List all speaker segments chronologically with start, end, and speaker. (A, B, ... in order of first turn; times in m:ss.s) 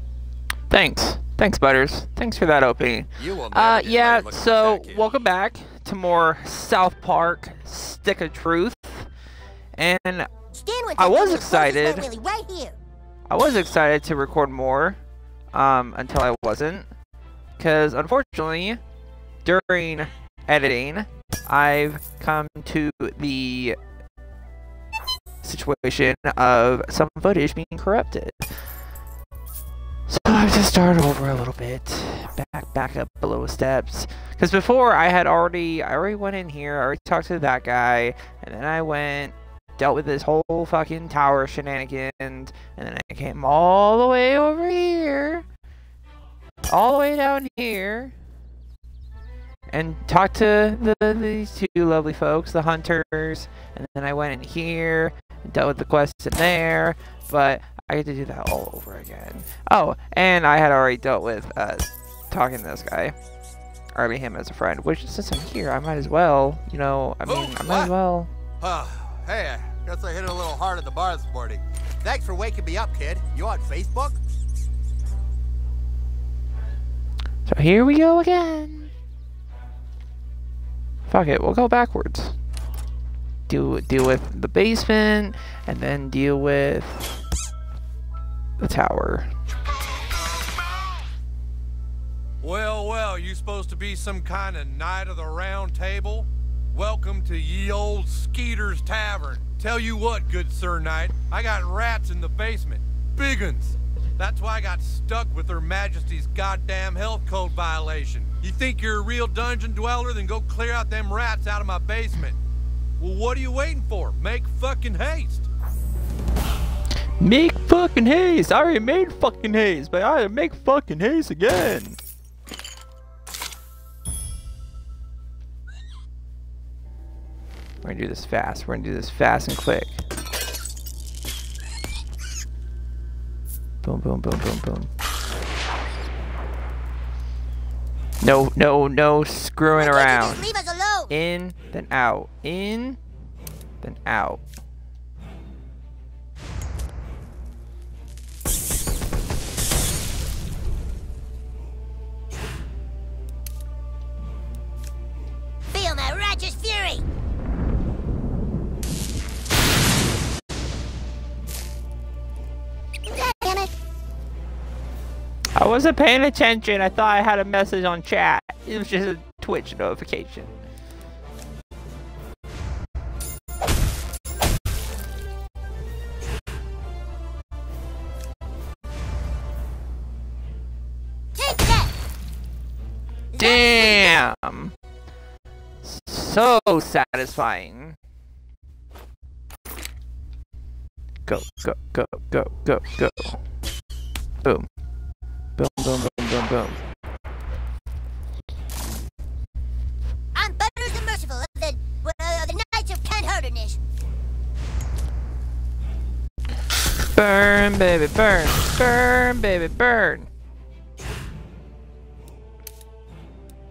0:00.7-0:09.1 A
0:03.5-0:04.9 B
0:09.7-0:10.3 A
0:10.5-0:12.8 C
0:11.0-0:12.1 A
0:13.3-0:15.0 A
0:15.5-0:16.9 A
0:17.6-0:18.8 A
0:19.4-0:23.8 A
0:25.4-0:28.6 A
0:30.1-0:45.4 A
0:46.7-0:48.2 A
0:49.7-1:03.1 A
1:03.9-1:08.3 A
1:07.3-1:07.8 B
1:08.6-1:14.2 B
1:17.5-1:18.9 A
1:21.1-1:22.4 A
1:23.5-1:27.2 A
1:28.6-1:29.3 A
1:32.4-1:52.4 D
1:53.0-1:55.5 D
1:57.2-2:02.0 A
2:07.8-2:10.0 A
2:13.8-2:14.9 A
2:18.2-2:20.5 A
2:19.8-2:21.1 C
2:21.1-2:23.0 A
2:23.8-2:24.4 A
2:35.7-2:37.0 C
2:43.0-2:43.7 C
2:45.6-2:50.5 A
3:01.3-3:01.9 C
3:03.3-3:04.2 C
3:03.4-3:04.7 A
3:05.8-3:08.0 A
3:11.2-3:13.4 A
3:15.6-3:16.8 A
3:20.3-3:23.8 C
3:27.1-3:30.3 A